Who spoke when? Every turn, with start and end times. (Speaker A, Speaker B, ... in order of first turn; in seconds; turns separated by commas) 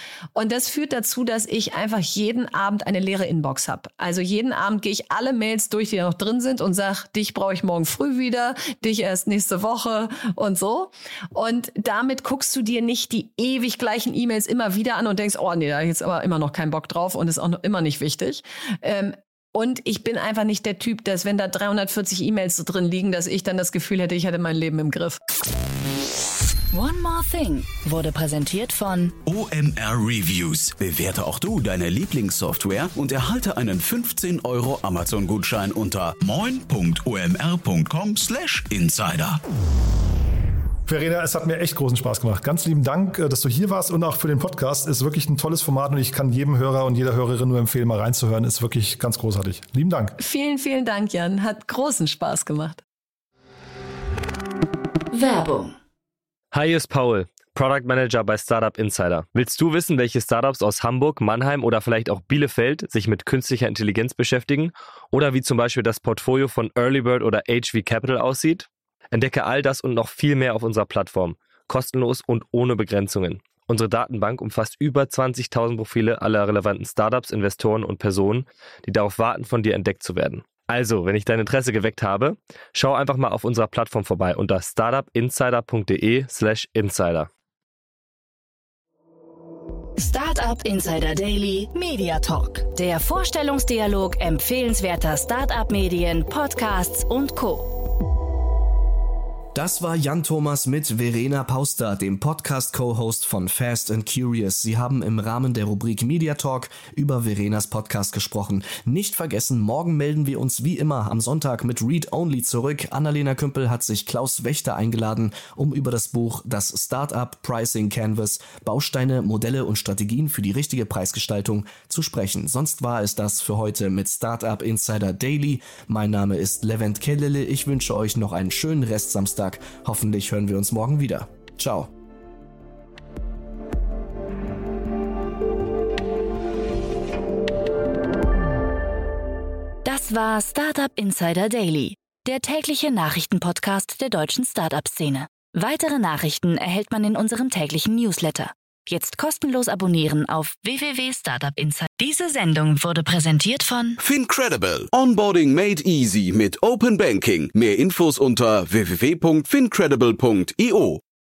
Speaker A: 0.3-25.2, Speaker B: 26.7-29.2, Speaker C: 29.2-39.4, Speaker D: 40.9-50.2, Speaker A: 50.2-52.8, Speaker B: 55.1-55.8, Speaker E: 56.5-87.3, Speaker B: 90.0-97.7, Speaker F: 99.5-131.9, Speaker B: 139.8-154.0, Speaker C: 154.0-161.0